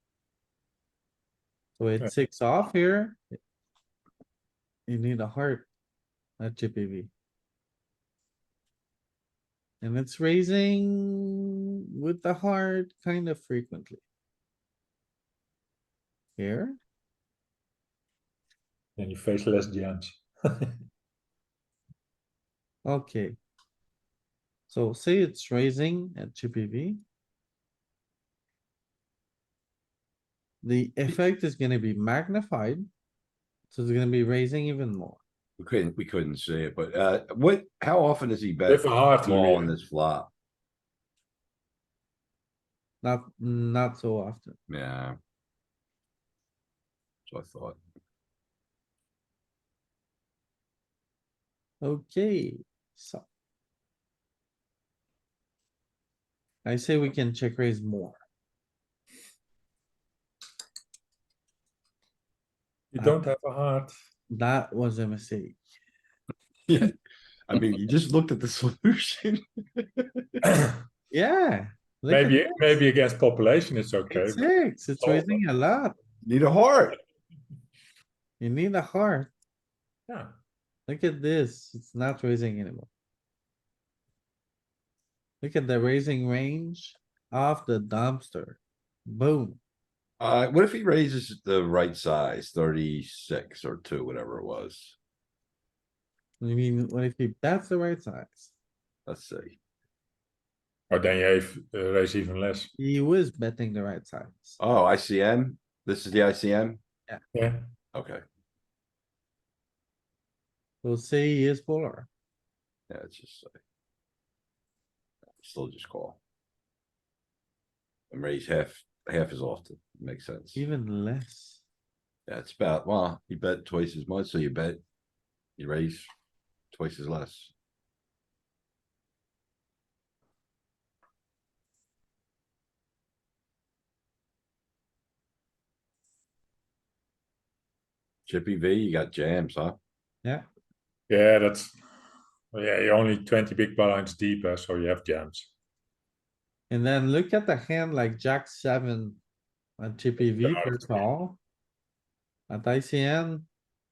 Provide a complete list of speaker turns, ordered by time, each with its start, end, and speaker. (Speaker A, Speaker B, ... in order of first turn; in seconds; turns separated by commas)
Speaker A: 1.8-3.2, Speaker A: 4.9-5.7, Speaker A: 6.4-7.1, Speaker A: 9.8-11.4, Speaker A: 12.0-14.0, Speaker A: 16.4-16.8, Speaker B: 19.0-20.7, Speaker A: 22.8-23.4, Speaker A: 24.7-27.0, Speaker A: 30.6-32.9, Speaker A: 33.7-35.2, Speaker C: 35.6-40.3, Speaker B: 38.7-39.7, Speaker A: 43.0-44.6, Speaker C: 44.7-45.2, Speaker C: 47.3-47.8, Speaker A: 51.8-53.2, Speaker A: 56.6-58.2, Speaker B: 62.9-63.9, Speaker A: 64.3-65.6, Speaker C: 66.7-66.9, Speaker C: 67.5-70.2, Speaker B: 70.5-70.7, Speaker A: 71.1-72.7, Speaker B: 72.1-75.4, Speaker A: 74.1-75.9, Speaker C: 76.2-77.0, Speaker A: 78.4-79.3, Speaker A: 80.9-82.9, Speaker A: 85.4-89.6, Speaker C: 90.2-95.0, Speaker A: 96.4-98.5, Speaker C: 99.1-99.5, Speaker B: 100.9-102.7, Speaker A: 102.8-104.6, Speaker C: 104.6-106.8, Speaker B: 107.3-107.7, Speaker C: 107.9-108.2, Speaker A: 110.8-112.1, Speaker C: 112.9-113.6, Speaker C: 115.4-116.2, Speaker C: 118.1-120.6, Speaker A: 120.5-121.6, Speaker C: 122.3-124.8, Speaker C: 125.6-126.1, Speaker C: 126.7-127.5, Speaker C: 138.2-139.8, Speaker B: 141.1-141.7, Speaker B: 142.5-145.5, Speaker A: 146.7-149.2, Speaker A: 149.8-151.4, Speaker B: 150.2-151.1, Speaker A: 152.5-153.5